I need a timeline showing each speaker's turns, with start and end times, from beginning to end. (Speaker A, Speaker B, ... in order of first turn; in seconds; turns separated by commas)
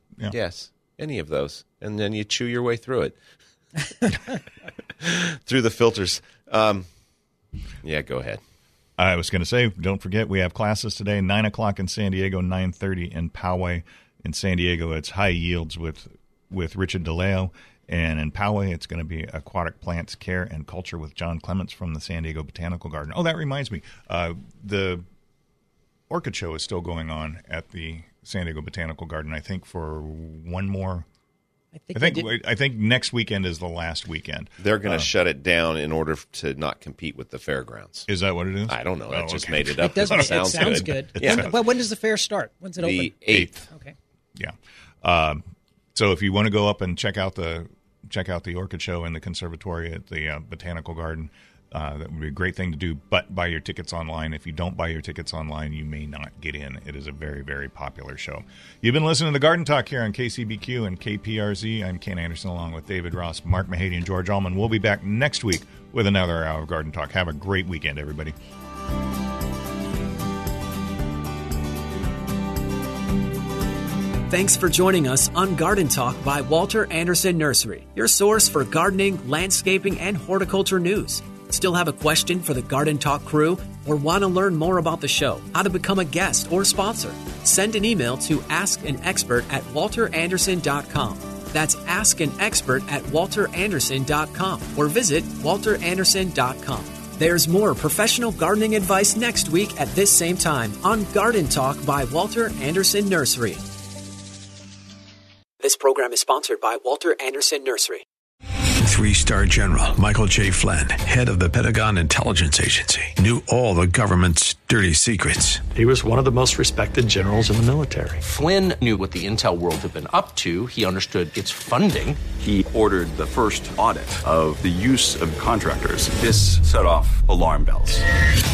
Speaker A: 0.3-3.1, Speaker B: 4.0-4.3, Speaker A: 5.0-6.9, Speaker A: 7.8-8.4, Speaker C: 9.0-25.0, Speaker C: 26.1-31.1, Speaker B: 31.7-32.3, Speaker C: 31.9-35.1, Speaker A: 34.6-38.1, Speaker C: 38.1-41.6, Speaker A: 38.7-41.5, Speaker B: 39.8-43.9, Speaker A: 42.8-43.6, Speaker C: 44.3-45.4, Speaker C: 45.9-68.3, Speaker D: 74.3-103.6, Speaker D: 105.6-108.0, Speaker E: 108.8-115.7, Speaker F: 115.7-118.2, Speaker G: 118.2-122.2, Speaker H: 122.3-128.0